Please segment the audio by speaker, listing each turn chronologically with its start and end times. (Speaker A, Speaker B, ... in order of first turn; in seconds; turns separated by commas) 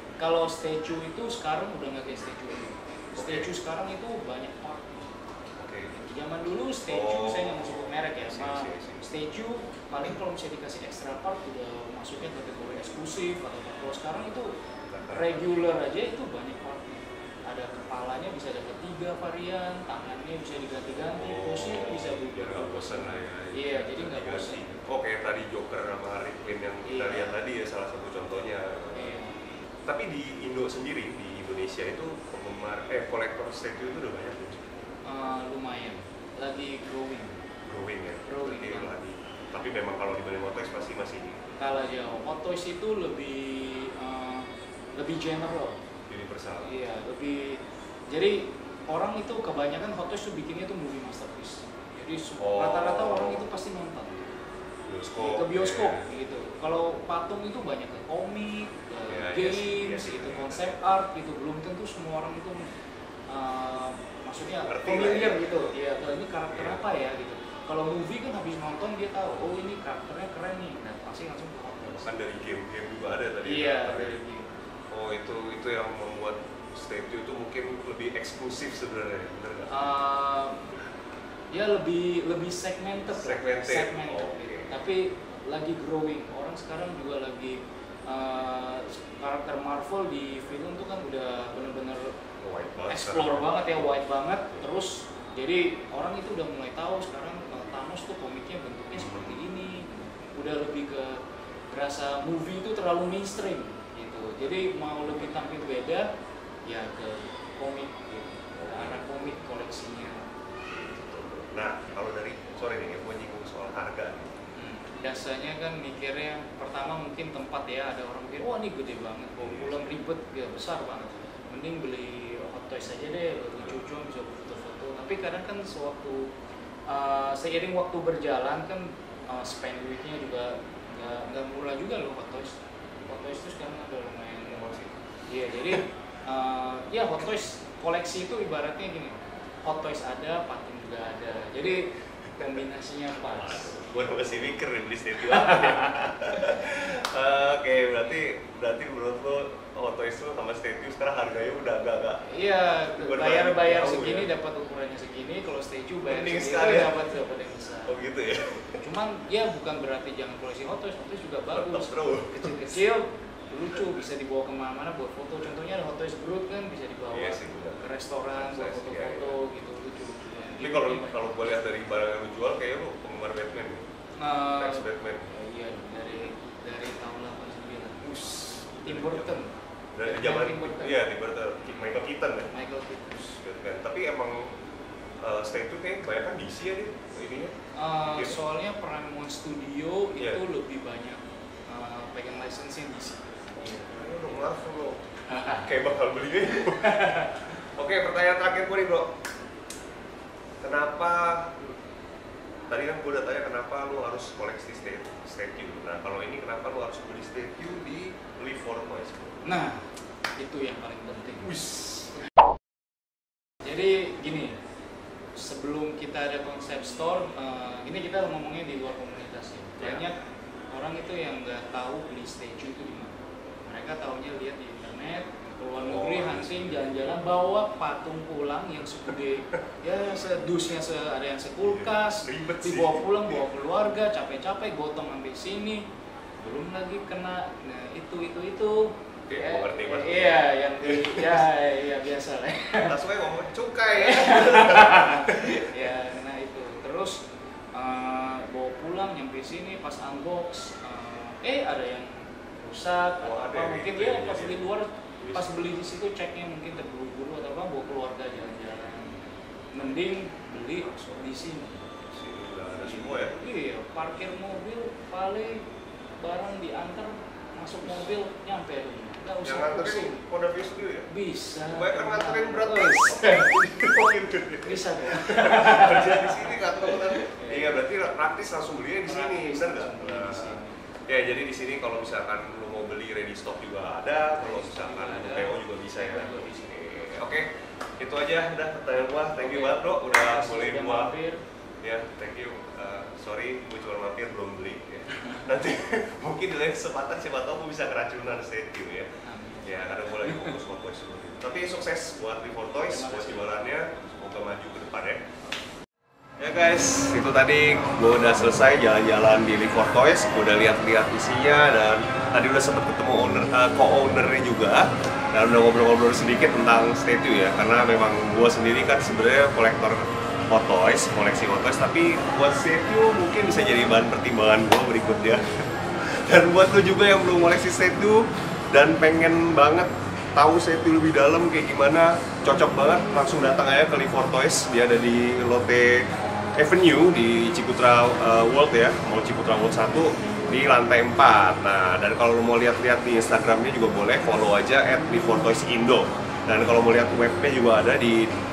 Speaker A: 0.2-5.1, Speaker B: 3.2-3.5, Speaker B: 5.6-5.9, Speaker A: 5.9-14.5, Speaker B: 6.9-9.1, Speaker B: 14.9-15.4, Speaker A: 15.1-24.7, Speaker B: 21.1-29.2, Speaker A: 26.9-27.4, Speaker A: 28.9-29.4, Speaker B: 29.9-34.8, Speaker A: 35.0-37.4, Speaker B: 37.6-41.4, Speaker A: 38.3-38.9, Speaker A: 41.6-45.8, Speaker B: 46.1-46.7, Speaker A: 46.6-54.2, Speaker B: 52.4-53.5, Speaker B: 54.9-56.1, Speaker A: 55.2-62.7, Speaker B: 59.1-60.8, Speaker A: 63.3-72.1, Speaker B: 64.6-65.7, Speaker B: 66.5-66.8, Speaker B: 71.9-74.2, Speaker A: 73.4-74.5, Speaker B: 74.9-79.9, Speaker A: 79.7-80.6, Speaker A: 81.5-92.1, Speaker B: 83.1-84.8, Speaker B: 92.4-94.7, Speaker A: 92.9-106.1, Speaker B: 99.0-99.5, Speaker A: 106.7-110.3, Speaker B: 108.5-109.2, Speaker B: 110.6-114.4, Speaker A: 114.6-126.3, Speaker B: 119.4-120.0, Speaker A: 126.9-144.6, Speaker B: 133.0-133.3, Speaker B: 134.5-134.9, Speaker B: 142.2-142.6, Speaker B: 143.2-152.3, Speaker A: 145.3-146.0, Speaker A: 152.3-158.0, Speaker B: 152.9-154.3, Speaker B: 156.1-157.0, Speaker B: 157.9-158.8, Speaker A: 158.8-171.4, Speaker B: 161.5-162.8, Speaker B: 167.1-169.4, Speaker B: 170.6-173.8, Speaker A: 174.2-181.0, Speaker B: 174.6-175.3, Speaker B: 178.1-179.3, Speaker B: 179.9-182.5, Speaker A: 182.5-183.4, Speaker B: 183.4-184.5, Speaker B: 185.2-188.4, Speaker A: 187.8-194.3, Speaker B: 193.6-199.1, Speaker A: 195.3-195.7, Speaker B: 200.6-201.7, Speaker B: 202.7-209.4, Speaker A: 209.4-209.9, Speaker A: 210.4-211.5, Speaker B: 211.4-212.1, Speaker A: 213.6-214.6, Speaker A: 215.3-220.2, Speaker B: 219.8-220.1, Speaker A: 220.7-235.8, Speaker B: 225.8-227.2, Speaker B: 231.6-233.4, Speaker A: 236.4-242.9, Speaker B: 239.3-241.4, Speaker B: 242.8-245.7, Speaker A: 244.0-259.2, Speaker B: 253.2-254.7, Speaker B: 255.2-255.6, Speaker A: 259.7-262.0, Speaker B: 262.1-263.4, Speaker A: 262.8-265.6, Speaker A: 266.2-270.2, Speaker B: 269.4-271.1, Speaker A: 271.1-273.9, Speaker B: 271.6-291.2, Speaker A: 274.6-277.8, Speaker A: 279.1-280.8, Speaker A: 284.4-286.7, Speaker A: 289.4-291.4, Speaker B: 291.8-299.1, Speaker A: 299.2-300.5, Speaker B: 299.6-305.3, Speaker A: 302.9-303.6, Speaker B: 306.4-336.1, Speaker B: 336.6-348.3